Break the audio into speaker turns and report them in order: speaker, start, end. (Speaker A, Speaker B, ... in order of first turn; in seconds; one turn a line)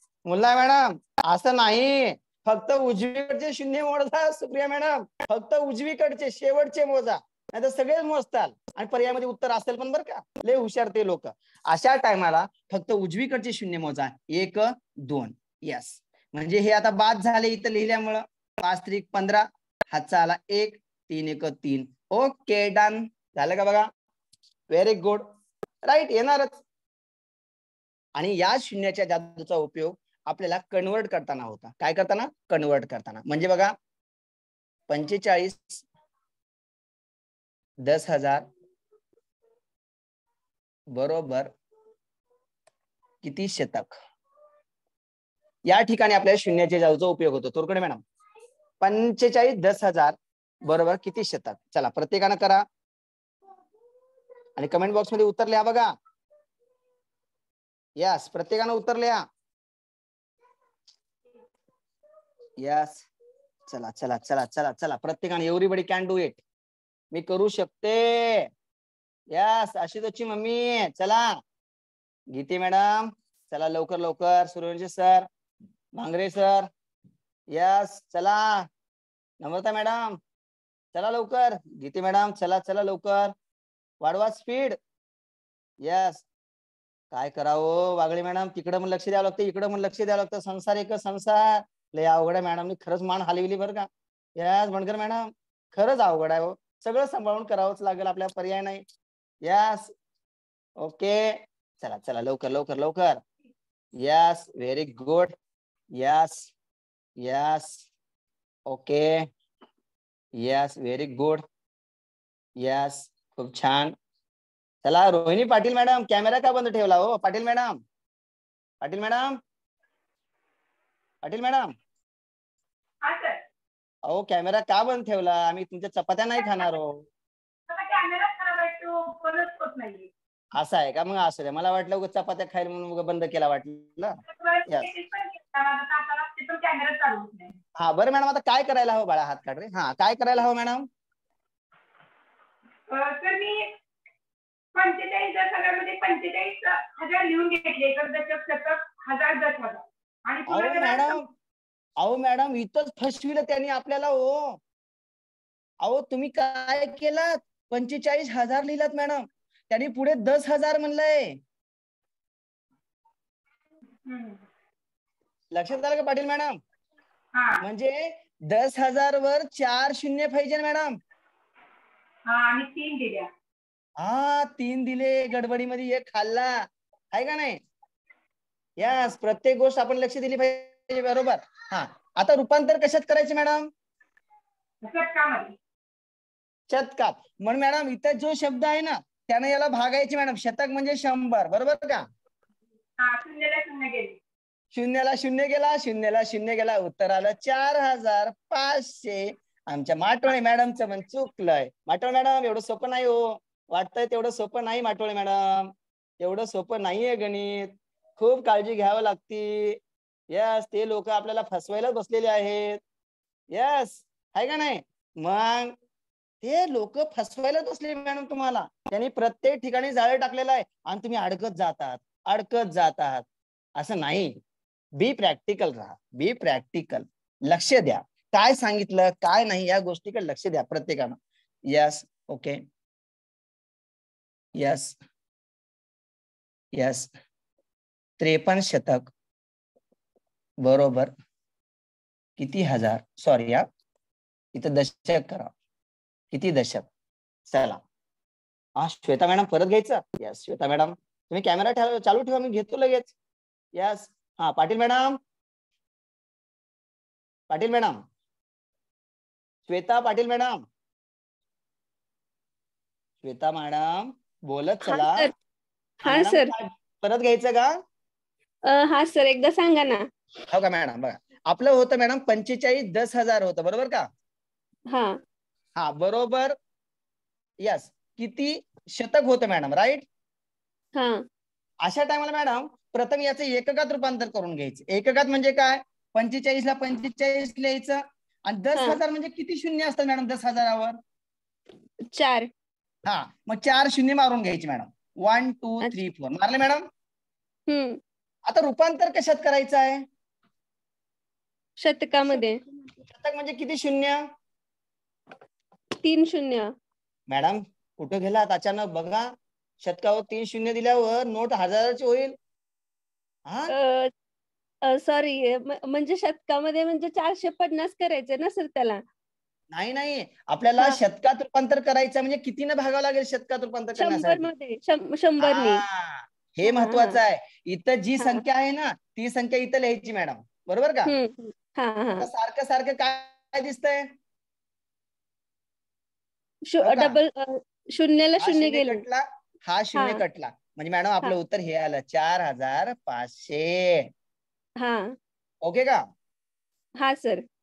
Speaker A: 0.2-23.9
Speaker A: 24.7-25.2
Speaker A: 25.9-26.6
Speaker A: 28.1-33.7
Speaker A: 34.9-35.8
Speaker A: 37.8-38.5
Speaker A: 40.9-41.5
Speaker A: 43.2-43.9
Speaker A: 45.7-48.0
Speaker A: 48.8-52.6
Speaker A: 54.6-55.9
Speaker A: 58.0-59.2
Speaker A: 62.6-63.0
Speaker A: 63.7-66.4
Speaker A: 67.1-68.5
Speaker A: 69.3-71.3
Speaker A: 72.3-75.3
Speaker A: 76.0-76.7
Speaker A: 77.5-78.7
Speaker A: 79.4-80.2
Speaker A: 80.9-83.3
Speaker A: 84.0-84.8
Speaker A: 85.8-86.2
Speaker A: 87.1-98.8
Speaker A: 99.4-99.9
Speaker A: 100.8-103.2
Speaker A: 104.0-105.3
Speaker A: 106.0-106.5
Speaker A: 107.2-107.8
Speaker A: 108.7-109.1
Speaker A: 110.4-111.4
Speaker A: 112.6-113.9
Speaker A: 114.8-117.8
Speaker A: 118.8-119.3
Speaker A: 121.2-121.7
Speaker B: 123.0-123.4
Speaker A: 124.1-127.0
Speaker B: 126.4-126.7
Speaker B: 127.7-130.1
Speaker A: 130.6-134.9
Speaker B: 134.3-137.5
Speaker A: 137.8-140.9
Speaker B: 142.9-143.7
Speaker B: 144.7-151.2
Speaker A: 150.5-151.2
Speaker A: 152.0-154.6
Speaker A: 155.8-161.4
Speaker B: 164.0-164.4
Speaker A: 165.5-166.6
Speaker B: 167.3-167.6
Speaker A: 167.6-170.9
Speaker B: 172.3-173.3
Speaker A: 174.0-177.6
Speaker A: 178.8-183.7
Speaker B: 184.8-185.5
Speaker A: 186.7-192.0
Speaker B: 193.0-194.2
Speaker A: 194.7-209.8
Speaker A: 210.3-212.8
Speaker A: 213.5-215.7
Speaker A: 216.4-223.2
Speaker A: 223.8-224.4
Speaker A: 225.0-231.2
Speaker A: 231.7-232.6
Speaker A: 234.6-234.9
Speaker A: 236.7-237.1
Speaker A: 238.2-239.1
Speaker A: 240.6-241.1
Speaker A: 242.4-243.6
Speaker A: 244.5-245.5
Speaker A: 246.3-246.8
Speaker A: 247.5-247.8
Speaker A: 248.8-253.1
Speaker A: 253.7-255.2
Speaker A: 257.5-258.0
Speaker A: 259.7-260.6
Speaker A: 263.2-265.3
Speaker C: 264.8-265.3
Speaker A: 266.0-267.7
Speaker C: 266.0-266.5
Speaker C: 268.7-270.0
Speaker A: 270.5-274.1
Speaker C: 274.9-275.2
Speaker A: 275.8-276.5
Speaker A: 277.6-280.0
Speaker C: 280.9-281.2
Speaker A: 281.8-291.0
Speaker C: 292.1-292.5
Speaker A: 293.1-296.8
Speaker C: 297.7-298.0
Speaker A: 298.5-300.0
Speaker C: 301.8-302.6
Speaker A: 303.1-304.2
Speaker C: 306.0-306.7
Speaker A: 307.3-309.3
Speaker A: 309.8-312.3
Speaker C: 313.7-314.1
Speaker C: 314.9-319.0
Speaker A: 319.7-324.5
Speaker C: 323.9-325.8
Speaker A: 325.4-331.1
Speaker C: 326.6-327.2
Speaker C: 331.0-332.3
Speaker A: 332.2-334.1
Speaker C: 336.7-339.0
Speaker A: 336.8-337.2
Speaker A: 338.4-344.1
Speaker C: 339.9-340.2
Speaker C: 344.8-345.1
Speaker A: 345.6-346.0
Speaker C: 347.0-347.4